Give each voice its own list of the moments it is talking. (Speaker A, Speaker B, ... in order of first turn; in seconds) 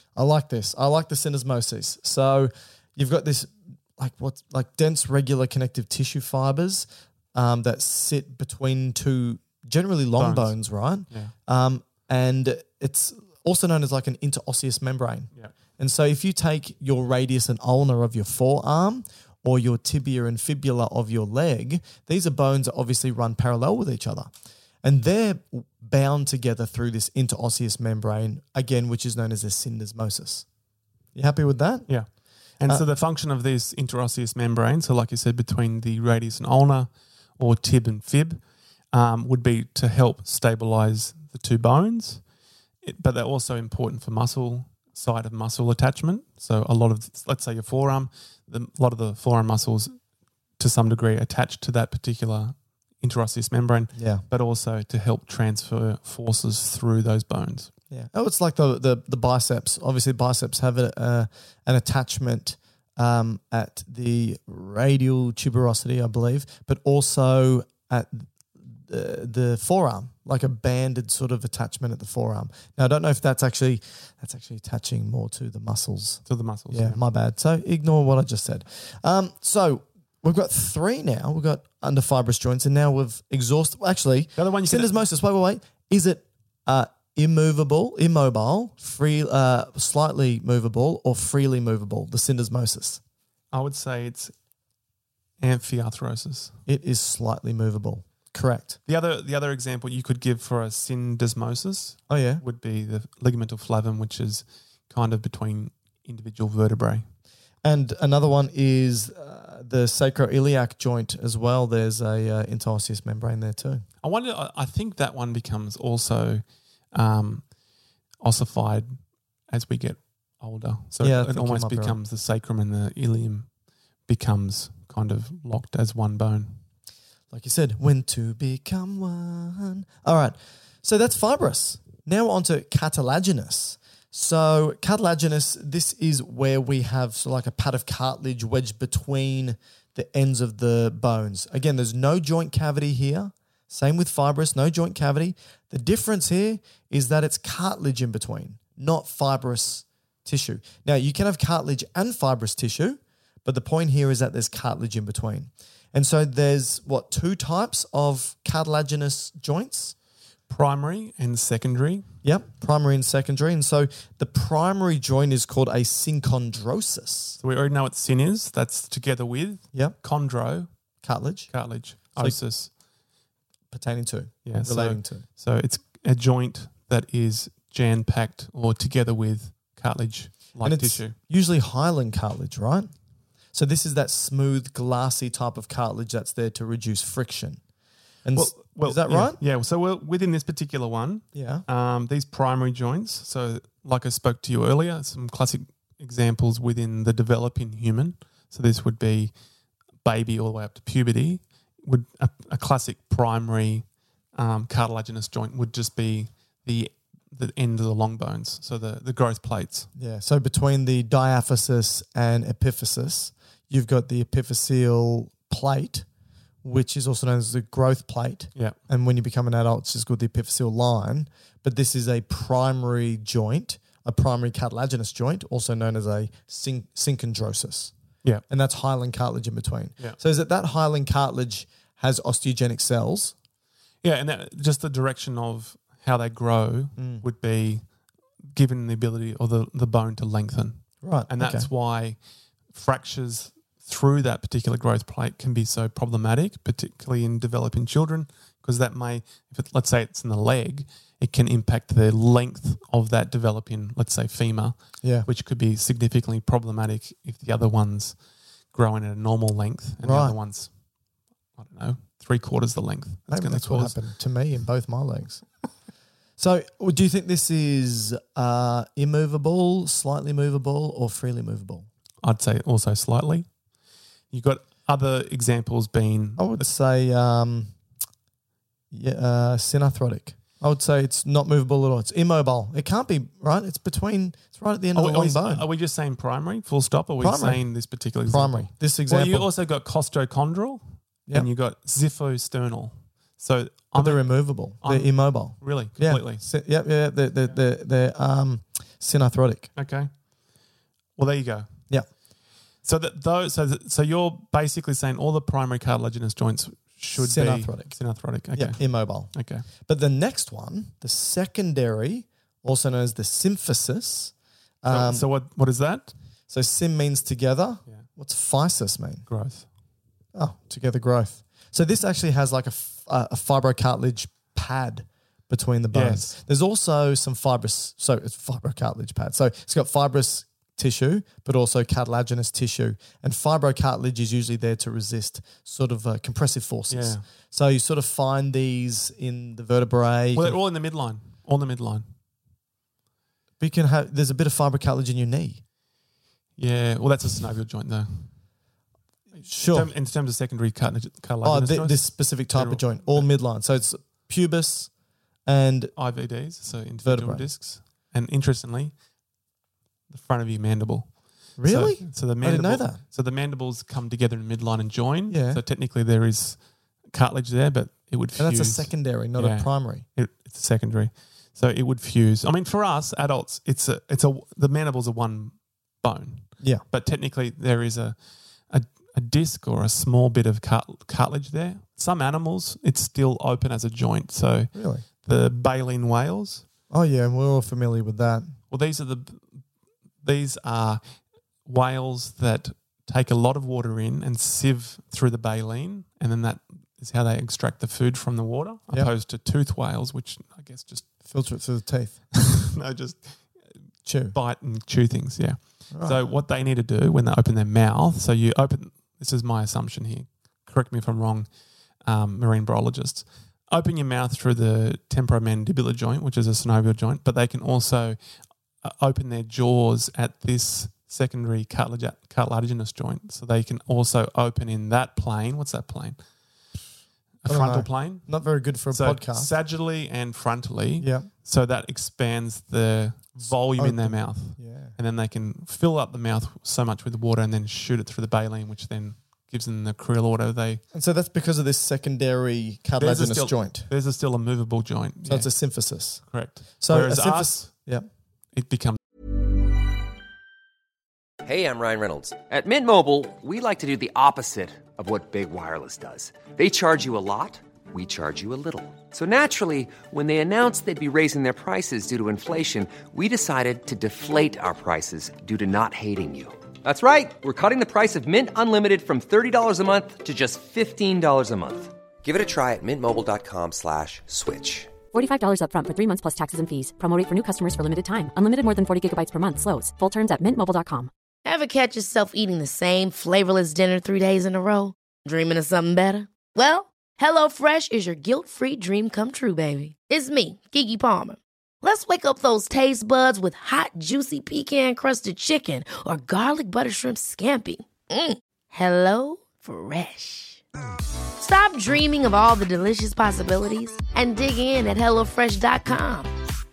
Speaker A: 0.1-24.3, 24.8-30.4, 31.1-32.0, 53.9-54.2, 57.9-93.0, 96.7-98.8, 102.1-102.4, 107.6-113.8, 121.0-122.0, 127.3-159.9, 162.2-167.4, 171.0-171.5, 173.7-175.2, 180.6-182.9, 183.5-187.6, 188.2-189.4, 191.3-191.7, 209.9-216.1, 216.6-227.9, 228.5-233.3, 237.0-237.2, 241.0-241.7, 255.0-255.3, 260.0-260.4, 263.3-265.5, 266.4-271.9, 276.4-277.7, 278.9-285.6, 287.2-287.7, 288.3-289.5, 293.9-299.7, 307.1-308.0, 308.5-315.2, 316.5-319.2, 320.3-340.6, 343.6-345.6, 349.4-349.9, 351.4-354.9, 355.4-355.9, 357.0-357.4, 361.6-363.0, 365.3-365.6, 368.4-370.0, 384.7-385.1, 386.9-388.5, 401.2-402.2, 404.0-404.4, 405.9-406.2, 427.5-429.5, 431.0-431.3, 433.4-434.9, 440.9-443.9, 445.2-448.1
Speaker B: 10.2-10.6, 32.6-42.2, 42.8-49.9, 50.6-57.7, 76.2-77.0, 84.4-85.0, 93.5-94.3, 95.4-96.5, 98.8-107.0, 114.0-117.4, 118.2-123.5, 124.1-126.6, 160.5-162.1, 167.4-170.7, 171.5-172.7, 174.4-181.2, 188.3-199.3, 200.0-203.8, 204.3-209.9, 234.0-237.8, 238.5-242.2, 242.7-258.2, 258.7-260.7, 261.6-264.0, 272.2-273.5, 274.3-276.5, 284.9-294.3, 294.8-296.4, 299.8-300.1, 301.2-301.7, 302.8-309.6, 314.9-316.1, 319.3-319.7, 325.9-326.3, 336.9-337.2, 340.3-342.1, 346.6-348.4, 349.4-353.3, 355.9-358.9, 360.1-366.6, 367.1-378.2, 378.7-386.6, 388.7-389.6, 390.2-391.0, 391.6-401.1, 402.3-403.5, 404.3-411.5, 412.0-418.2, 418.8-426.2, 427.4-428.3, 428.9-440.8, 443.0-445.5, 446.2-447.7, 448.5-449.0
Speaker C: 451.4-475.0
Speaker D: 475.1-481.1
Speaker E: 481.4-500.6, 501.4-506.3